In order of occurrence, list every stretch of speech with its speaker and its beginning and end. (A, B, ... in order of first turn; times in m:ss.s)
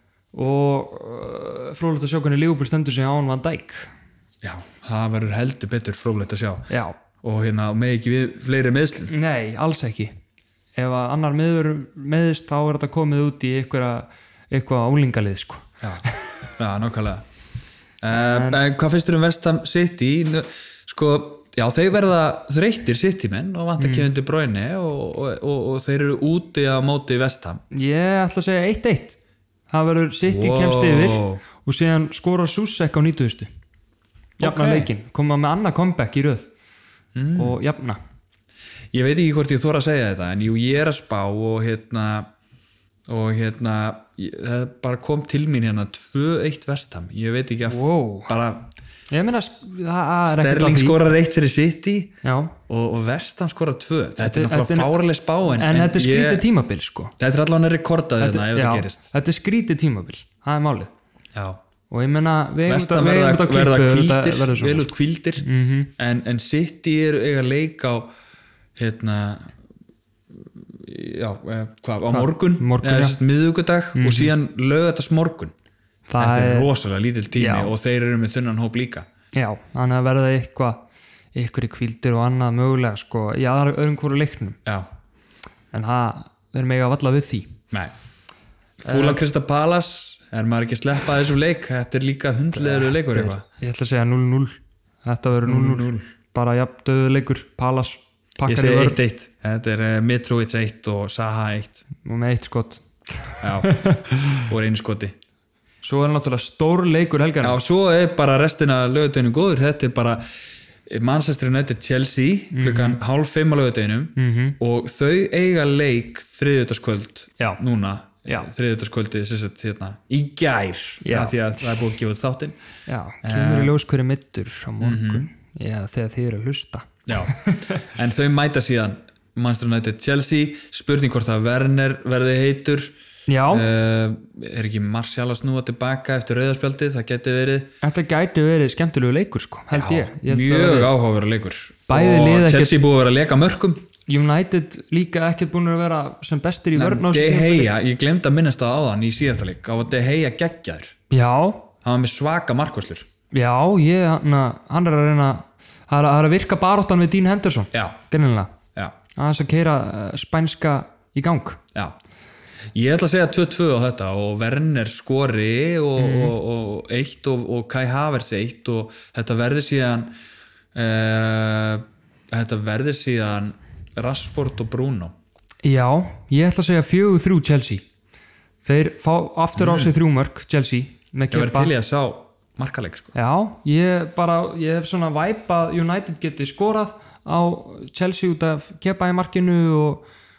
0:00.3-0:03.9 A
0:04.4-0:06.7 B
0:06.7-0:07.0 A
0:07.2-0:09.1 B
0:09.1-0:10.1 A
0:10.8-0:16.3 A
0:16.6-0:17.2 B
0:18.0-0:27.6 B
0:18.1-0:18.6 A
0:23.8-0:24.1 A
0:27.7-0:29.2 A
0:29.7-0:33.5 A
0:30.3-0:31.4 B
0:34.4-0:34.9 B
0:34.4-0:36.5 A
0:37.2-0:37.6 B
0:37.4-0:38.0 A
0:38.9-0:42.3 B
0:43.1-0:48.7 B
0:47.7-0:48.4 A
0:49.1-0:51.0 A
0:50.3-0:52.2 B
0:52.2-0:52.6 A
0:52.7-0:56.5 B
0:54.2-0:54.9 A
0:55.4-0:57.2 A
0:57.2-0:59.0 B
0:58.2-1:00.9 A
1:01.3-1:01.6 B
1:01.9-1:05.9 A
1:02.7-1:05.5 B
1:06.0-1:08.1 B
1:08.8-1:09.5 B
1:10.3-1:15.5 B
1:12.1-1:13.2 A
1:14.0-1:14.3 A
1:16.1-1:16.7 A
1:16.2-1:19.1 B
1:17.3-1:17.7 A
1:19.3-1:20.8 A
1:21.3-1:24.6 A
1:25.7-1:27.6 A
1:28.8-1:33.4 B
1:28.8-1:29.2 A
1:32.6-1:39.0 A
1:35.4-1:36.1 B
1:38.5-1:41.8 B
1:42.0-1:44.5 A
1:43.4-1:43.8 B
1:44.5-1:45.2 B
1:45.8-1:47.6 A
1:47.4-1:50.3 B
1:50.9-2:02.6 B
1:52.5-1:53.0 A
1:54.2-1:54.6 A
2:01.0-2:01.3 A
2:02.9-2:07.9 A
2:03.2-2:03.7 B
2:04.8-2:05.3 B
2:07.1-2:12.9 B
2:13.3-2:13.7 A
2:13.5-2:17.7 B
2:17.8-2:20.9 A
2:19.7-2:23.9 B
2:21.9-2:22.8 A
2:24.1-2:27.7 A
2:26.8-2:30.9 B
2:31.1-2:31.7 A
2:31.8-2:33.1 B
2:33.3-2:38.5 A
2:37.7-2:38.0 B
2:39.2-2:41.6 A
2:42.7-2:50.1 B
2:46.0-2:46.3 A
2:50.7-2:55.1 B
2:55.6-2:57.8 A
2:58.6-3:01.7 A
2:59.6-2:59.9 B
3:01.3-3:03.1 B
3:03.2-3:10.0 A